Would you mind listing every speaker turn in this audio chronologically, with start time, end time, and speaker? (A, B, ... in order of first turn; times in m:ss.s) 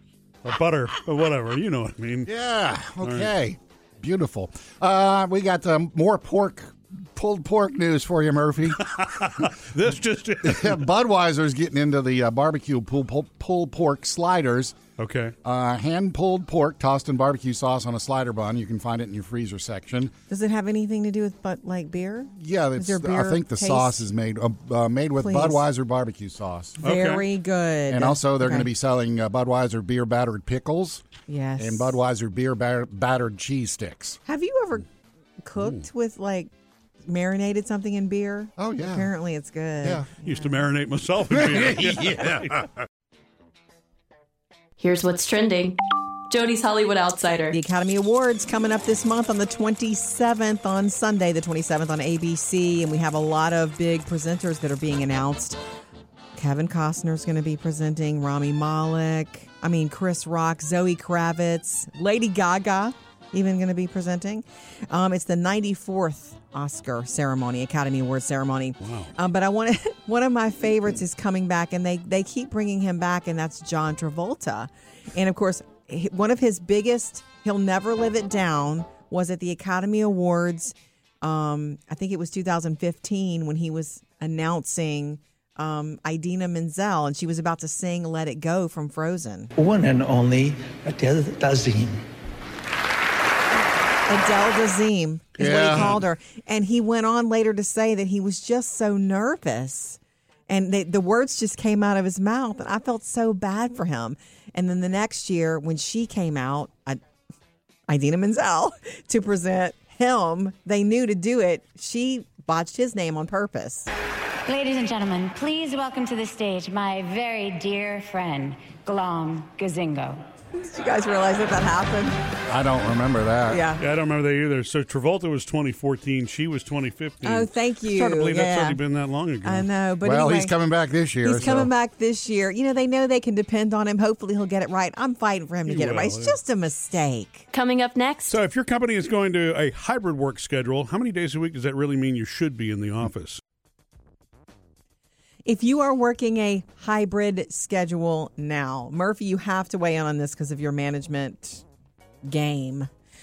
0:00.4-0:02.3 A
0:02.2-0:09.4 B
0:03.0-0:03.3 A
0:08.8-0:10.8 A
0:10.4-0:14.8 B
0:15.0-0:15.3 A
0:15.4-0:20.1 B
0:20.3-0:24.1 C
0:22.4-0:26.8 B
0:25.2-0:25.6 C
0:26.8-0:28.7 C
0:26.8-0:27.2 A
0:27.9-0:31.0 B
0:31.3-0:31.9 C
0:31.6-0:34.2 B
0:34.2-0:34.9 C
0:35.4-0:36.5 C
0:37.0-0:40.5 C
0:38.6-0:39.1 B
0:39.8-0:40.1 B
0:40.2-0:42.6 A
0:41.3-0:42.7 B
0:44.8-0:45.8 D
0:46.3-0:47.6 D
0:47.5-0:55.6 C
0:56.4-1:29.5 C
1:08.8-1:09.1 A
1:29.6-1:32.0 E
1:34.1-1:47.0 C
1:35.4-1:36.0 B
1:47.9-1:53.9 C
1:54.4-2:00.2 F
2:00.5-2:02.2 C
2:02.5-2:03.7 B
2:03.5-2:03.8 C
2:03.8-2:09.7 A
2:07.2-2:08.8 C
2:09.4-2:10.6 C
2:10.0-2:11.7 B
2:11.2-2:17.4 C
2:15.7-2:16.4 A
2:17.5-2:18.3 D
2:18.3-2:23.4 A
2:25.4-2:31.6 C
2:32.2-2:32.9 C